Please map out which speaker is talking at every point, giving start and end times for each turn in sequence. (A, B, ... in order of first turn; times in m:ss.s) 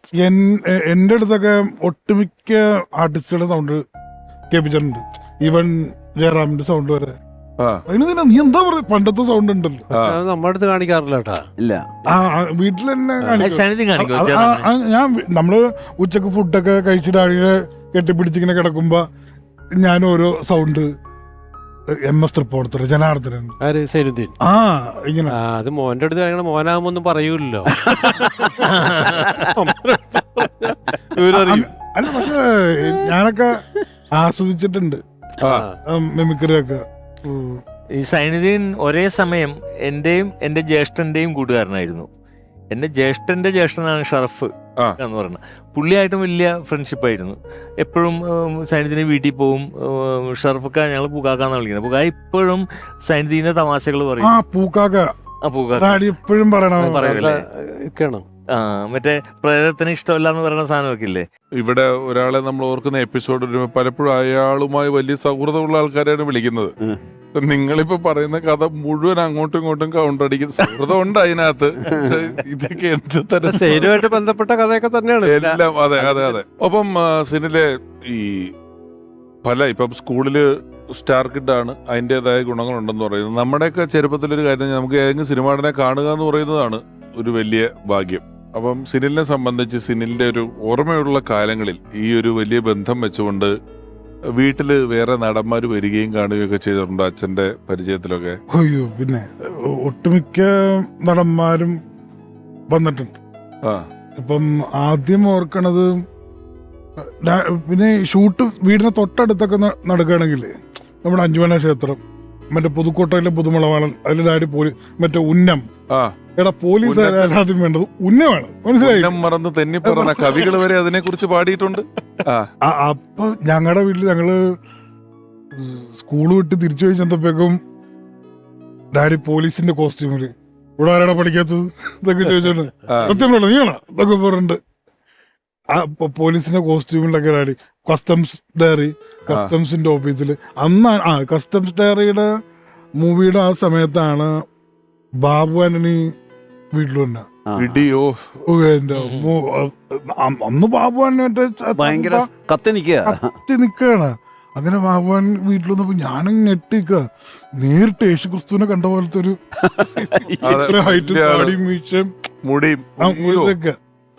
0:00.2-0:03.8 A
0:04.5-0:07.2 A
0:07.6-0:07.8 B
0:07.9-0:09.9 A
0:09.9-0:10.2 B
0:09.9-0:11.4 C
0:11.6-0:11.9 D
0:12.1-0:19.1 A
0:13.4-0:14.6 E
0:19.8-0:20.9 A
0:22.0-0:23.6 A
0:23.6-0:24.3 C
0:24.4-0:25.3 A
0:25.3-0:30.8 C
0:28.6-0:29.4 E
0:31.3-0:31.6 C
0:31.4-0:31.7 B
0:31.4-0:33.6 A
0:34.1-0:35.0 A
0:35.4-0:35.7 B
0:35.4-0:35.8 C
0:35.8-0:37.6 A
0:37.9-0:42.1 E
0:42.7-0:54.3 E
0:54.2-0:55.1 A
0:55.4-0:56.0 E
0:55.8-0:57.1 A
0:56.8-0:57.4 E
0:56.8-0:58.2 C
0:58.5-1:01.3 E
1:01.6-1:06.7 B
1:07.3-1:14.0 B
1:11.8-1:12.2 D
1:13.4-1:16.4 C
1:15.2-1:18.5 B
1:19.4-1:33.5 B
1:34.4-1:38.4 B
1:38.5-1:41.8 A
1:42.7-1:43.2 A
1:44.2-1:45.9 A
1:47.0-1:52.0 A
1:52.5-1:55.6 A
1:55.9-1:56.1 B
1:56.4-1:59.2 A
1:56.8-1:57.3 B
1:58.8-2:02.5 B
1:59.8-2:00.6 A
2:02.6-2:04.4 A
2:05.5-2:07.6 A
2:08.9-2:14.6 A
2:12.9-2:13.2 B
2:15.7-2:22.3 A
2:23.0-2:24.3 A
2:25.2-2:26.1 A
2:26.7-2:27.3 A
2:27.5-2:27.9 D
2:27.6-2:28.3 B
2:28.5-2:32.3 A
2:28.9-2:29.3 E
2:31.8-2:33.3 D
2:33.0-2:39.4 A
2:39.6-2:40.7 D
2:39.9-2:42.1 A
2:40.4-2:41.5 B
2:42.4-2:43.5 B
2:43.0-2:43.8 A